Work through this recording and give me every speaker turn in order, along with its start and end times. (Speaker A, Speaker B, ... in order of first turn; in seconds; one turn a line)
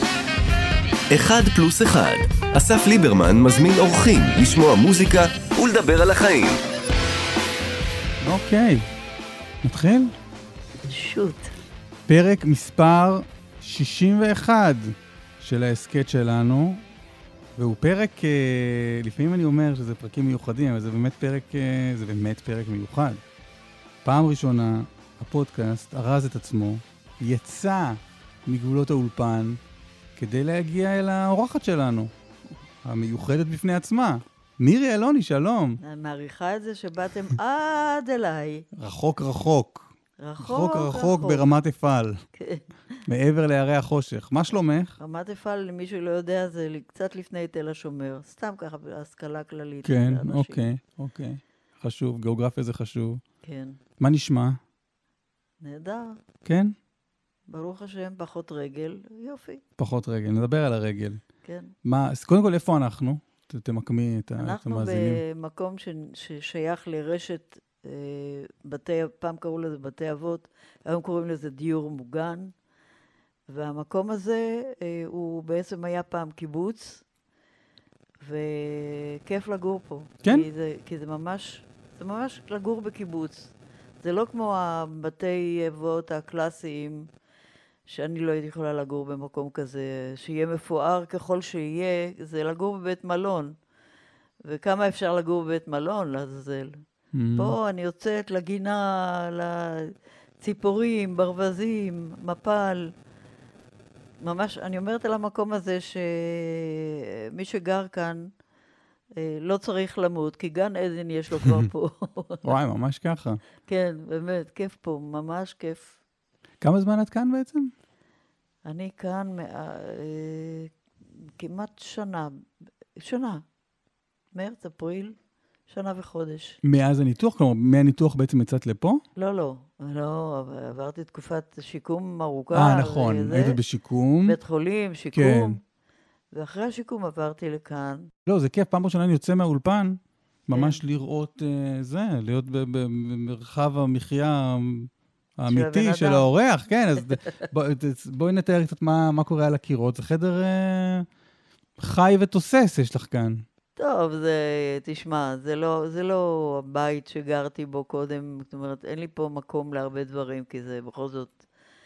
Speaker A: 1.1-6.6
Speaker B: 8.2-8.8
Speaker B: 9.6-10.1
Speaker C: 10.8-11.5
Speaker B: 12.1-16.8
Speaker B: 17.6-23.2
Speaker B: 24.0-29.6
Speaker B: 30.1-32.1
Speaker B: 32.8-35.8
Speaker C: 35.8-38.6
Speaker B: 38.8-42.2
Speaker C: 40.2-41.5
Speaker C: 42.3-43.0
Speaker B: 43.1-45.0
Speaker C: 45.0-50.7
Speaker B: 49.8-53.2
Speaker C: 53.4-53.8
Speaker B: 54.0-54.6
Speaker C: 55.6-56.2
Speaker B: 56.4-56.7
Speaker C: 57.5-59.6
Speaker B: 59.8-61.3
Speaker C: 61.4-61.7
Speaker B: 61.8-65.2
Speaker C: 64.4-72.5
Speaker C: 73.5-77.0
Speaker C: 78.2-87.1
Speaker C: 87.9-93.5
Speaker C: 94.4-96.8
Speaker B: 97.1-97.5
Speaker C: 97.3-102.9
Speaker C: 104.2-108.3
Speaker C: 109.2-112.4
Speaker B: 112.4-113.4
Speaker C: 113.7-116.0
Speaker B: 116.6-117.7
Speaker C: 118.6-120.7
Speaker C: 121.4-122.4
Speaker C: 123.0-123.4
Speaker C: 124.3-125.2
Speaker C: 125.7-126.6
Speaker B: 126.6-129.0
Speaker C: 129.2-133.6
Speaker B: 132.5-134.4
Speaker C: 134.2-135.6
Speaker B: 135.1-135.6
Speaker C: 136.3-138.1
Speaker B: 138.2-151.1
Speaker C: 140.5-140.8
Speaker C: 145.5-146.2
Speaker B: 151.8-153.4
Speaker C: 153.8-161.4